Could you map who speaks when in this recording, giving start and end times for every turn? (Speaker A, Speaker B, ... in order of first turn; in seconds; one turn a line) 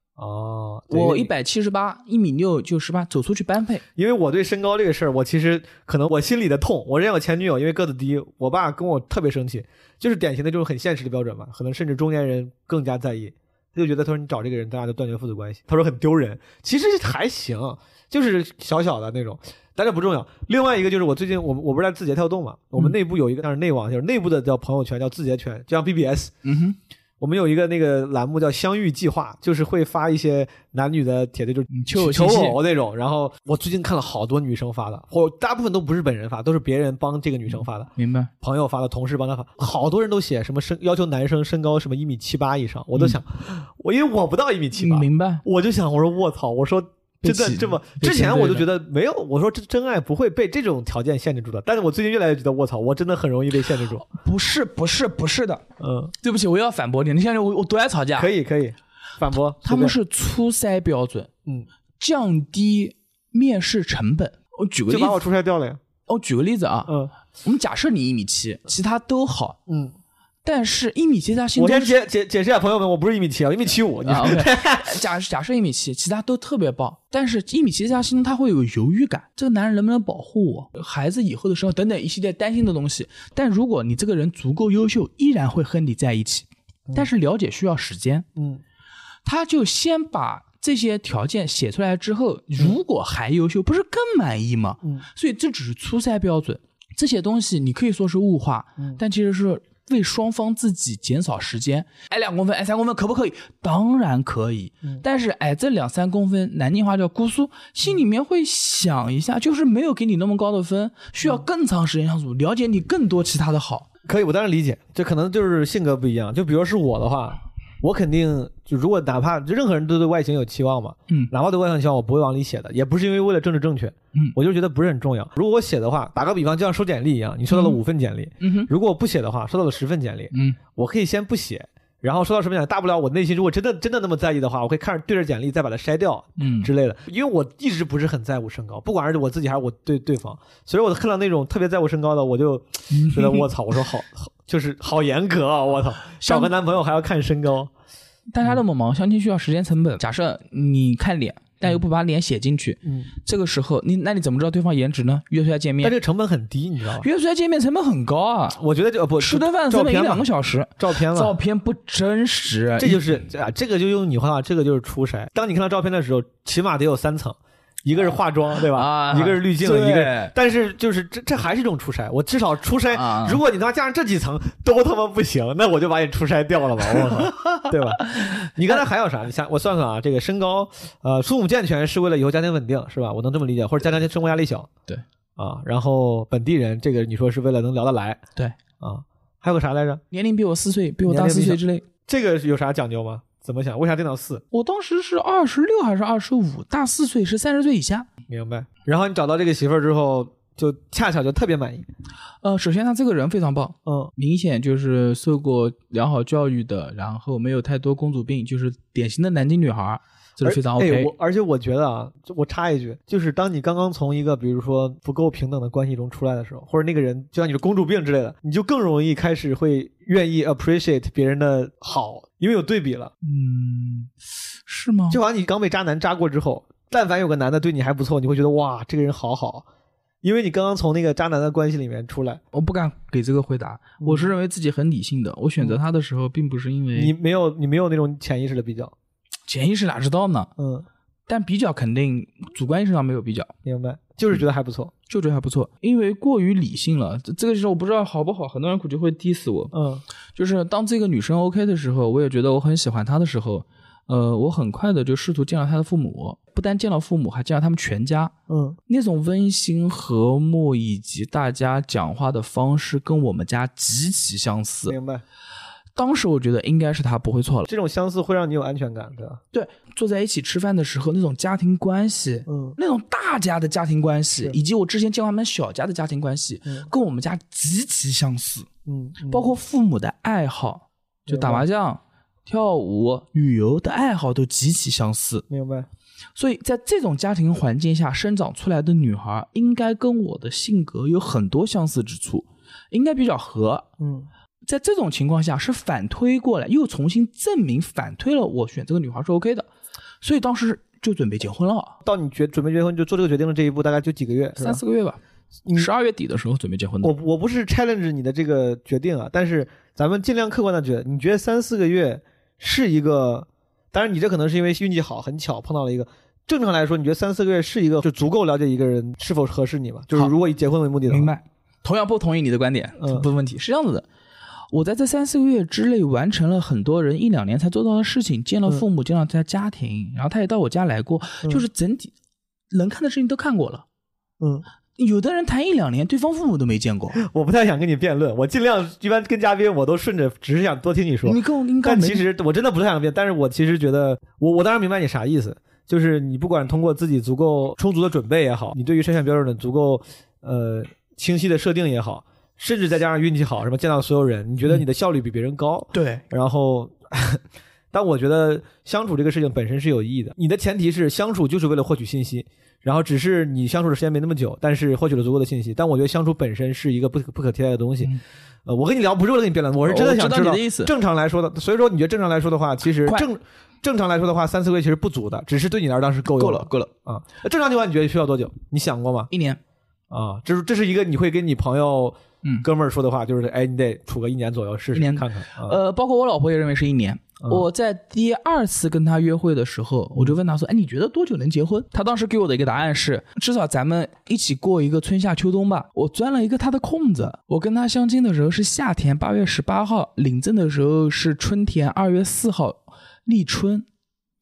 Speaker A: 0.2-1.3
Speaker B: 0.9-3.8
Speaker A: 4.0-26.3
Speaker B: 26.4-26.8
Speaker A: 27.2-54.1
Speaker B: 31.7-32.6
Speaker B: 38.0-38.3
Speaker B: 44.8-45.4
Speaker B: 47.2-48.7
Speaker B: 54.1-55.6
Speaker A: 55.8-56.1
Speaker B: 56.2-58.3
Speaker A: 58.2-60.0
Speaker B: 59.6-61.3
Speaker B: 62.0-65.2
Speaker A: 64.9-65.8
Speaker B: 66.1-69.6
Speaker A: 66.9-67.1
Speaker A: 69.7-70.0
Speaker B: 70.4-72.0
Speaker A: 71.6-75.0
Speaker B: 74.0-88.3
Speaker A: 88.4-88.6
Speaker B: 89.2-113.9
Speaker A: 114.0-147.7
Speaker B: 127.5-127.8
Speaker B: 128.4-128.7
Speaker B: 130.3-130.6
Speaker B: 136.4-136.7
Speaker B: 142.9-143.5
Speaker B: 146.2-146.5
Speaker B: 148.3-155.9
Speaker A: 155.8-157.1
Speaker B: 157.0-158.6
Speaker A: 158.6-161.3
Speaker B: 159.2-163.0
Speaker A: 162.8-184.7
Speaker B: 168.7-170.3
Speaker B: 172.9-173.4
Speaker B: 177.2-178.4
Speaker A: 185.4-188.2
Speaker A: 188.8-190.0
Speaker B: 190.1-191.9
Speaker A: 191.1-194.4
Speaker B: 194.5-198.1
Speaker A: 198.3-201.9
Speaker B: 202.4-211.1
Speaker A: 203.9-204.1
Speaker A: 210.4-223.1
Speaker B: 223.2-224.1
Speaker B: 224.7-225.2
Speaker A: 225.1-229.7
Speaker A: 230.2-232.4
Speaker B: 232.5-237.1
Speaker A: 234.0-234.3
Speaker A: 236.9-238.9
Speaker B: 239.5-240.5
Speaker A: 240.6-240.9
Speaker B: 241.3-243.5
Speaker A: 243.6-244.9
Speaker B: 245.1-249.7
Speaker A: 249.7-250.0
Speaker B: 250.3-258.3
Speaker A: 258.5-258.8
Speaker B: 258.9-265.0
Speaker A: 264.9-265.2
Speaker B: 265.9-267.7
Speaker A: 267.7-269.4
Speaker B: 269.5-278.7
Speaker A: 272.5-272.8
Speaker A: 278.9-279.5
Speaker B: 279.2-285.5
Speaker A: 281.3-281.7
Speaker A: 285.5-285.9
Speaker B: 286.4-293.9
Speaker A: 294.0-294.3
Speaker B: 294.6-299.7
Speaker B: 300.2-302.0
Speaker A: 302.0-304.8
Speaker B: 304.6-305.2
Speaker B: 305.7-307.1
Speaker A: 307.0-321.3
Speaker B: 321.1-324.1
Speaker A: 323.0-323.3
Speaker B: 324.7-332.1
Speaker B: 332.7-333.9
Speaker A: 334.4-334.6
Speaker B: 335.0-337.2
Speaker A: 337.2-368.1
Speaker B: 341.2-342.2
Speaker B: 355.9-356.2
Speaker A: 368.7-379.3
Speaker B: 369.8-370.9
Speaker B: 376.3-376.9
Speaker B: 379.3-379.6
Speaker A: 380.1-385.8
Speaker B: 384.9-403.9